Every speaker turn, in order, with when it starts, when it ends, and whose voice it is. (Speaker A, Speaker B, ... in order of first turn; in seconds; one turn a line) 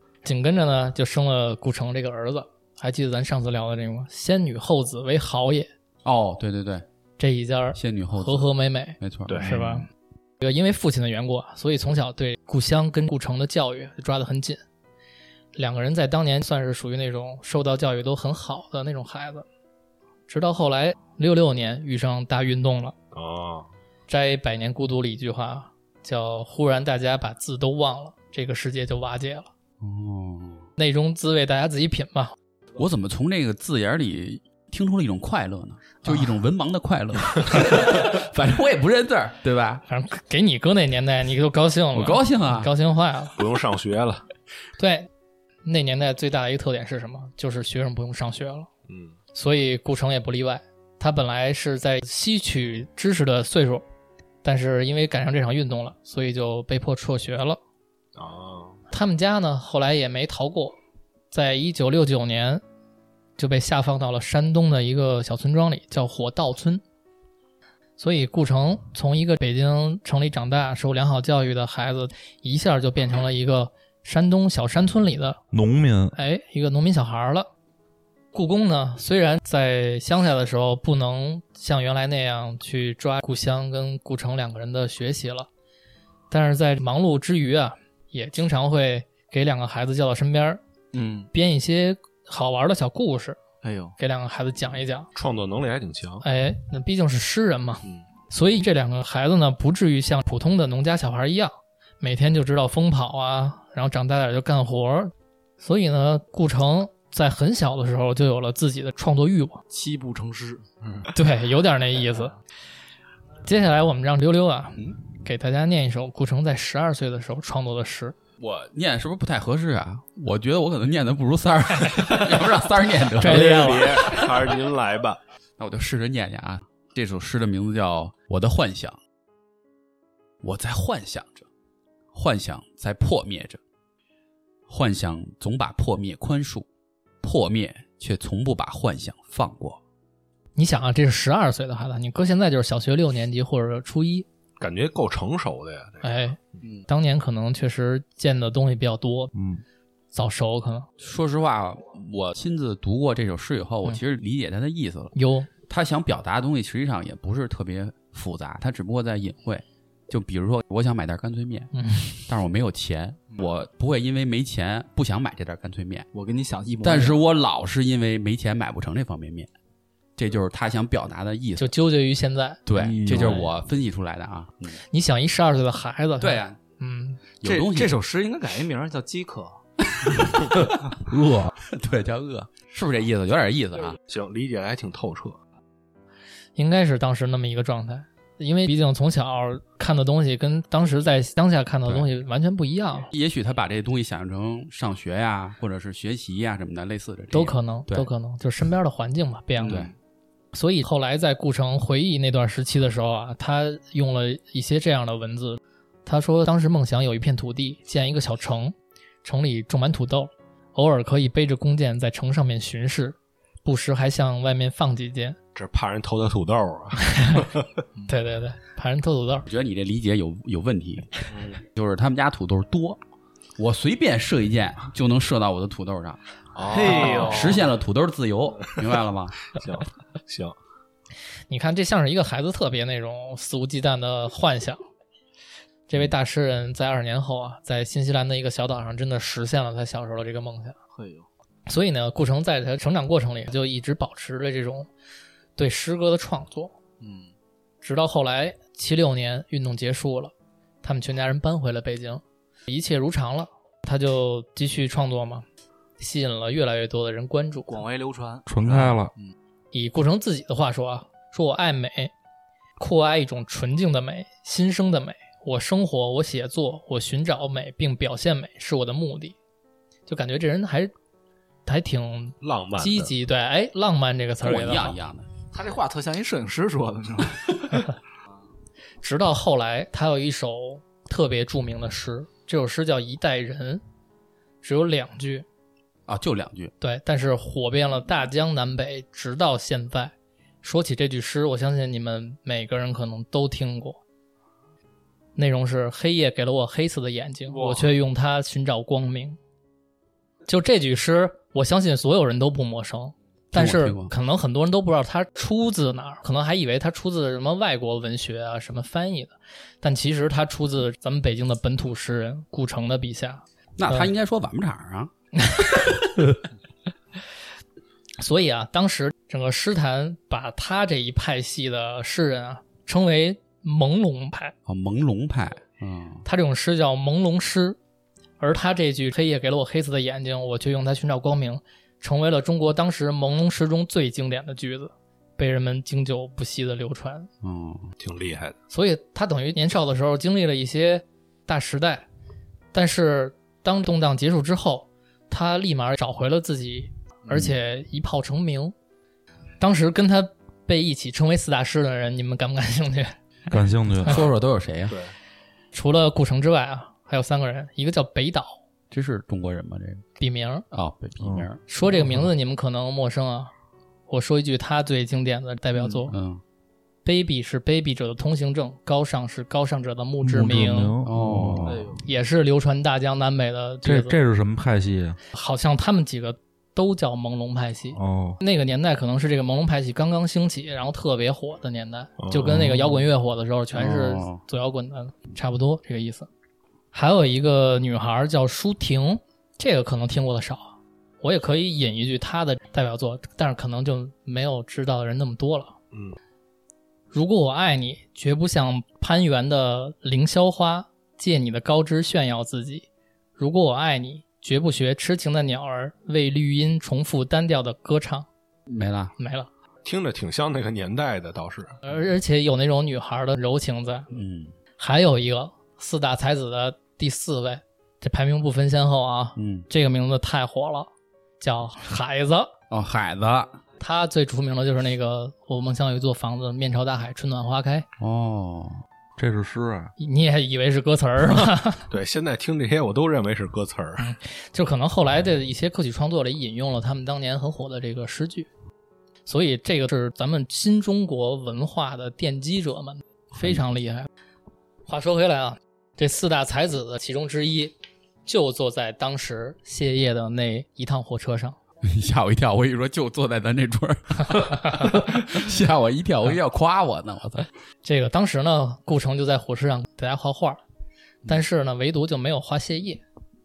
Speaker A: 0.2-5.7
Speaker B: 6.0-6.8
Speaker A: 7.2-9.8
Speaker B: 7.7-9.8
Speaker C: 9.3-9.5
Speaker A: 10.4-14.6
Speaker A: 15.6-19.4
Speaker A: 20.3-22.9
Speaker C: 23.1-23.7
Speaker A: 24.1-29.5
Speaker B: 29.8-30.7
Speaker A: 30.8-32.3
Speaker B: 32.8-39.8
Speaker A: 39.9-43.4
Speaker B: 41.9-42.7
Speaker C: 43.4-44.2
Speaker A: 44.8-45.1
Speaker A: 45.6-48.7
Speaker C: 48.9-49.1
Speaker A: 49.3-53.8
Speaker A: 54.4-57.6
Speaker C: 58.1-58.8
Speaker A: 58.9-60.8
Speaker A: 61.3-62.6
Speaker A: 63.4-66.8
Speaker A: 68.0-75.4
Speaker D: 75.5-76.1
Speaker A: 76.1-77.5
Speaker A: 78.3-85.5
Speaker A: 86.3-90.6
Speaker E: 90.9-91.3
Speaker A: 91.3-93.4
Speaker E: 93.6-93.9
Speaker A: 94.0-95.1
Speaker C: 95.1-96.2
Speaker A: 96.2-109.6
Speaker E: 109.7-110.6
Speaker A: 111.1-112.3
Speaker A: 113.4-118.1
Speaker B: 118.4-123.7
Speaker A: 123.2-124.2
Speaker C: 123.2-125.2
Speaker B: 125.6-129.0
Speaker B: 130.4-131.5
Speaker B: 132.1-133.6
Speaker B: 134.7-136.7
Speaker B: 137.2-139.8
Speaker A: 140.5-144.3
Speaker C: 144.6-146.1
Speaker A: 146.0-149.3
Speaker D: 149.3-149.6
Speaker A: 150.1-150.9
Speaker B: 151.0-155.1
Speaker A: 155.1-155.5
Speaker B: 155.7-161.7
Speaker A: 161.7-162.2
Speaker B: 162.3-166.1
Speaker E: 166.1-167.2
Speaker B: 166.8-169.5
Speaker B: 170.2-171.7
Speaker A: 171.6-172.6
Speaker B: 172.7-174.8
Speaker D: 172.8-173.4
Speaker E: 172.8-173.5
Speaker A: 174.9-177.2
Speaker B: 176.2-176.6
Speaker B: 177.4-177.9
Speaker E: 177.4-179.6
Speaker D: 181.0-181.5
Speaker B: 181.7-184.0
Speaker C: 184.1-185.4
Speaker A: 186.6-193.1
Speaker B: 193.1-198.1
Speaker A: 197.3-199.8
Speaker E: 199.6-199.9
Speaker B: 199.7-199.9
Speaker A: 200.5-215.4
Speaker C: 215.5-217.6
Speaker A: 217.1-217.5
Speaker A: 218.1-219.5
Speaker B: 219.4-223.0
Speaker C: 221.3-221.6
Speaker B: 223.6-226.2
Speaker C: 226.5-227.6
Speaker E: 226.7-227.7
Speaker B: 226.8-229.5
Speaker C: 229.5-230.5
Speaker A: 231.5-234.8
Speaker A: 235.9-240.7
Speaker E: 240.9-241.3
Speaker A: 241.7-244.9
Speaker A: 245.6-246.7
Speaker E: 247.0-247.3
Speaker A: 247.8-250.3
Speaker A: 250.8-255.4
Speaker A: 256.0-257.8
Speaker E: 257.7-259.3
Speaker D: 258.5-259.1
Speaker A: 259.7-262.1
Speaker A: 262.8-269.4
Speaker A: 270.1-270.9
Speaker A: 271.6-274.9
Speaker C: 272.4-273.1
Speaker B: 274.4-275.3
Speaker E: 275.5-277.9
Speaker A: 279.0-283.8
Speaker A: 284.6-285.4
Speaker B: 286.1-286.7
Speaker A: 286.8-294.0
Speaker A: 295.4-299.4
Speaker A: 300.4-314.1
Speaker B: 303.5-304.1
Speaker B: 313.8-315.1
Speaker A: 318.2-324.5
Speaker B: 324.6-326.2
Speaker A: 326.2-327.8
Speaker A: 328.4-337.3
Speaker B: 337.4-337.9
Speaker C: 338.0-338.6
Speaker A: 338.7-342.0
Speaker A: 342.7-348.7
Speaker A: 349.6-353.1
Speaker D: 353.5-354.2
Speaker B: 354.0-355.0
Speaker C: 354.9-355.1
Speaker A: 355.7-358.6
Speaker B: 358.9-360.0
Speaker A: 360.2-360.6
Speaker B: 360.7-361.6
Speaker D: 361.2-361.5
Speaker A: 361.7-363.5
Speaker A: 364.1-366.1
Speaker B: 366.1-366.4
Speaker A: 367.0-370.9
Speaker D: 370.2-371.9
Speaker B: 371.0-371.8
Speaker E: 371.6-372.0
Speaker A: 372.0-374.1
Speaker D: 373.8-375.2
Speaker A: 375.3-386.3
Speaker D: 377.9-378.4
Speaker C: 382.2-382.7
Speaker B: 383.7-384.4
Speaker A: 386.9-395.7
Speaker A: 397.1-408.3
Speaker B: 408.7-409.1
Speaker A: 409.2-409.5
Speaker C: 409.8-411.8
Speaker A: 411.8-414.1
Speaker B: 414.1-414.5
Speaker A: 414.8-420.9
Speaker B: 419.4-419.7
Speaker A: 421.4-422.5
Speaker B: 422.7-423.6
Speaker A: 423.8-427.9
Speaker B: 428.0-428.8
Speaker D: 429.2-429.9
Speaker A: 430.0-431.9
Speaker C: 431.9-434.1
Speaker A: 434.0-438.5
Speaker A: 439.2-444.1
Speaker A: 444.9-447.7
Speaker A: 448.2-451.6
Speaker B: 451.8-457.4
Speaker A: 457.8-460.6
Speaker A: 461.2-463.0